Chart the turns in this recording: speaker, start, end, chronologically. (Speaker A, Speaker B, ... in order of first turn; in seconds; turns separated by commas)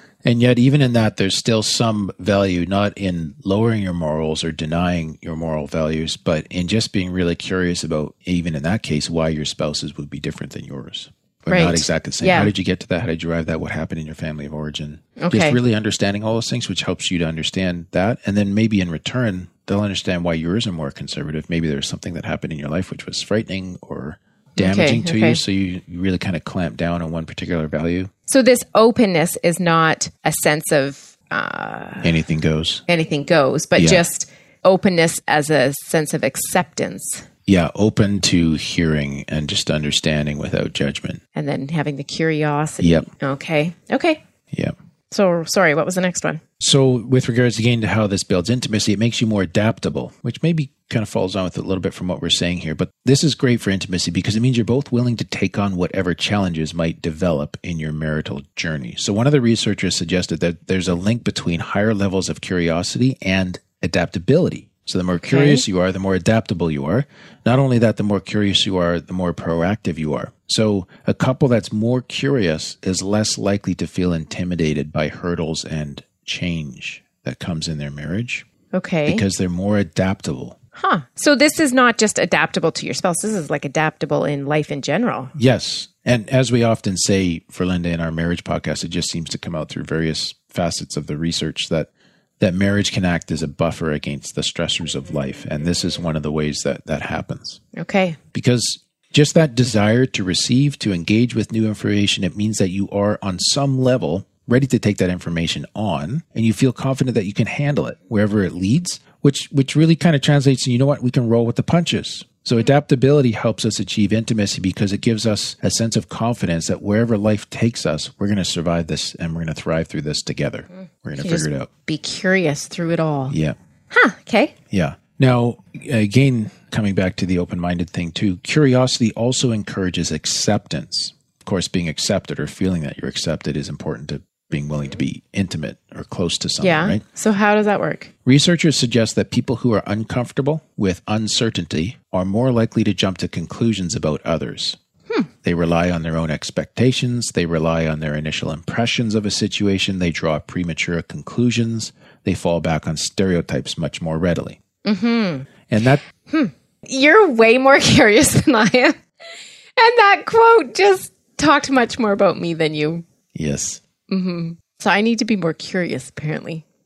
Speaker A: 0.2-28.1, Speaker B: 11.5-12.5, Speaker B: 15.2-15.6, Speaker B: 24.6-25.4, Speaker B: 28.3-32.2, Speaker A: 32.0-32.8, Speaker B: 32.9-37.3, Speaker A: 33.8-34.0, Speaker A: 37.5-41.2, Speaker B: 41.4-44.2, Speaker A: 42.8-43.1, Speaker B: 45.1-46.4, Speaker A: 46.6-78.5, Speaker B: 65.2-65.6, Speaker B: 78.7-79.2, Speaker A: 79.1-80.6, Speaker B: 80.8-85.3, Speaker A: 85.3-97.6, Speaker B: 97.7-98.2, Speaker A: 98.3-121.7, Speaker B: 121.2-123.3, Speaker A: 123.3-123.5, Speaker B: 123.9-124.5, Speaker A: 124.7-137.0, Speaker B: 136.6-138.1, Speaker A: 138.3-144.8, Speaker A: 145.4-154.6, Speaker B: 154.8-155.5, Speaker A: 155.7-156.0, Speaker B: 156.3-159.0, Speaker B: 159.8-163.1, Speaker A: 163.3-163.8, Speaker B: 164.1-166.6